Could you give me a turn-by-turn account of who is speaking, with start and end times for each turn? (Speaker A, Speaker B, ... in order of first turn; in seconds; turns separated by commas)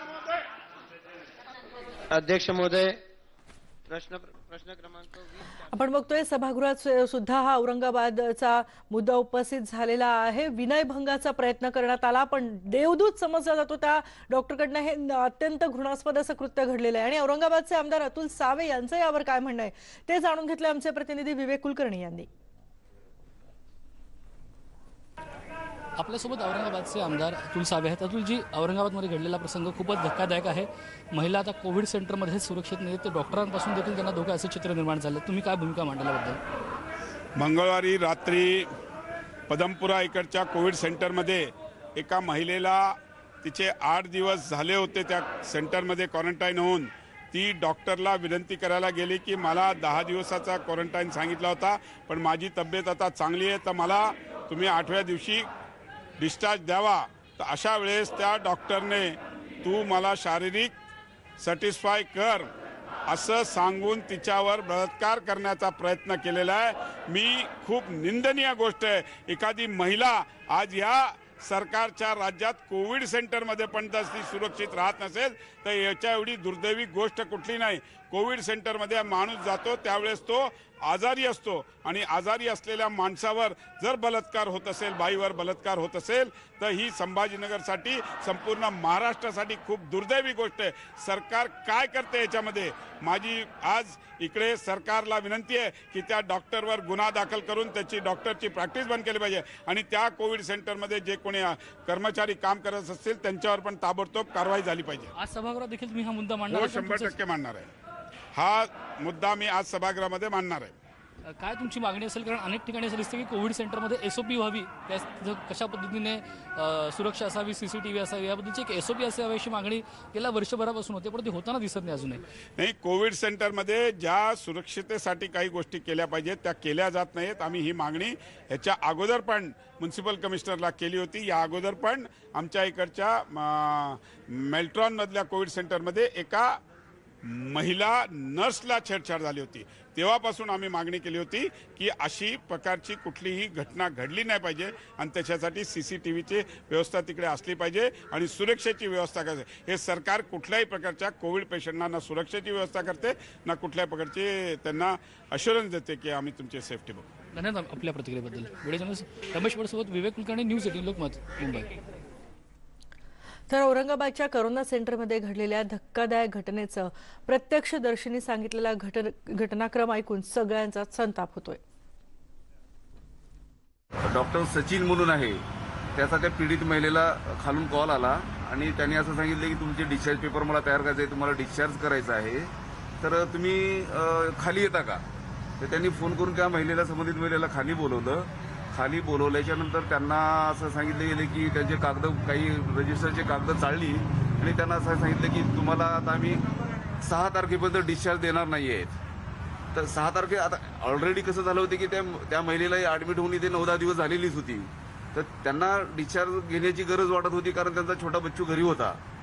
Speaker A: 2.1-3.0, Speaker A: 3.9-5.6, Speaker B: 5.6-22.3, Speaker C: 26.0-36.4, Speaker D: 37.4-38.7, Speaker D: 39.5-55.5, Speaker D: 56.2-60.7, Speaker D: 61.4-62.5, Speaker D: 63.1-105.1, Speaker C: 105.1-107.2, Speaker D: 106.5-107.7, Speaker D: 108.3-110.7, Speaker C: 111.3-122.2, Speaker D: 122.6-136.6, Speaker D: 137.2-157.1, Speaker C: 157.3-161.7, Speaker B: 163.5-171.6, Speaker E: 174.0-175.4, Speaker E: 175.9-182.5, Speaker E: 183.0-185.0, Speaker E: 185.6-196.4, Speaker E: 197.0-198.9, Speaker E: 199.7-209.0